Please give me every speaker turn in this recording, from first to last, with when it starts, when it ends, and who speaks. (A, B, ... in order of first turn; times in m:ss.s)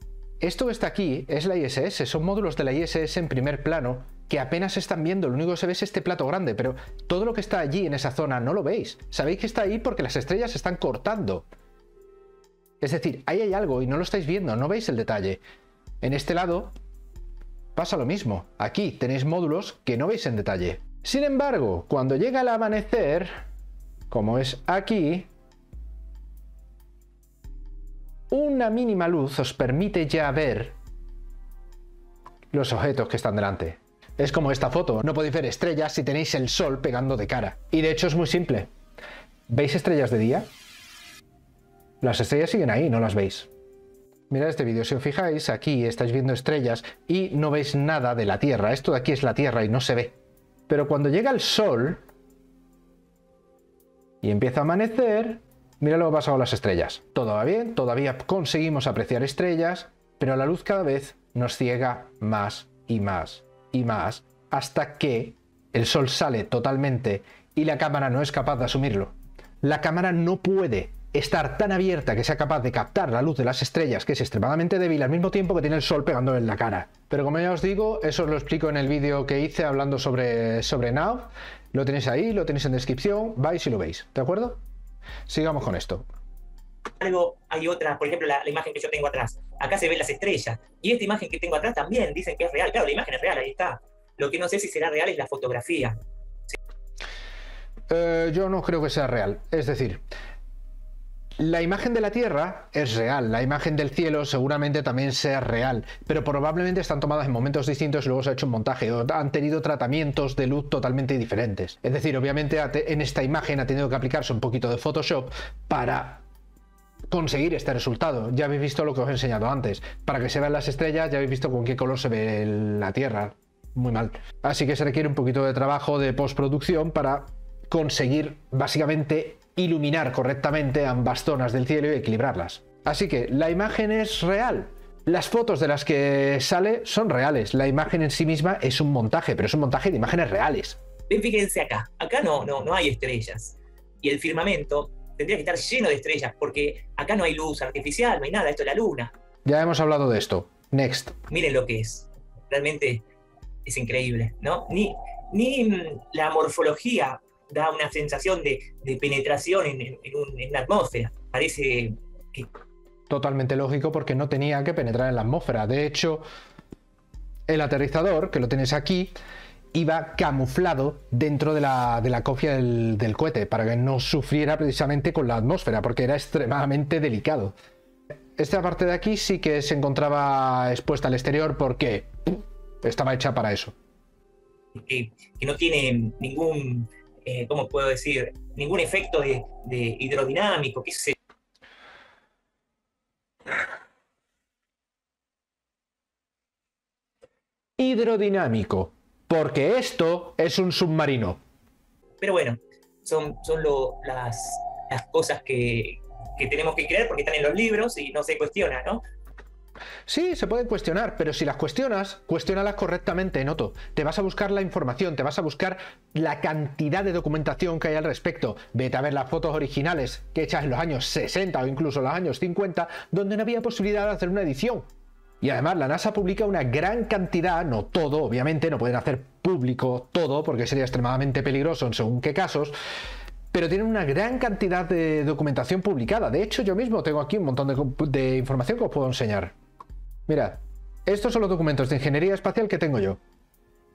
0:00.4-0:11.5 A
0:12.8-0:15.4 A
0:16.0-0:16.7 A
0:17.8-0:23.4 A
0:24.1-0:25.3 A
0:28.3-0:30.8 A
0:32.5-0:38.7 A
0:39.5-0:40.5 A
0:42.0-0:43.5 A
0:44.3-0:50.2 A
0:50.7-0:52.0 A
0:54.2-1:24.6 A
1:25.3-1:26.0 A
1:27.0-1:36.0 B
1:37.9-1:40.0 A
1:41.4-1:56.2 A
1:57.1-2:20.8 A
2:21.1-2:29.1 B
2:29.4-2:31.2 A
2:31.3-2:33.0 B
2:33.6-2:42.5 B
2:43.1-2:46.2 A
2:47.5-2:49.2 A
2:49.7-2:57.6 A
2:58.4-3:03.7 A
3:04.8-3:11.2 B
3:17.8-3:21.4 A
3:22.2-3:29.0 B
3:30.1-3:44.9 A
3:45.4-3:52.8 A
3:53.5-3:59.5 A
4:00.3-4:03.2 A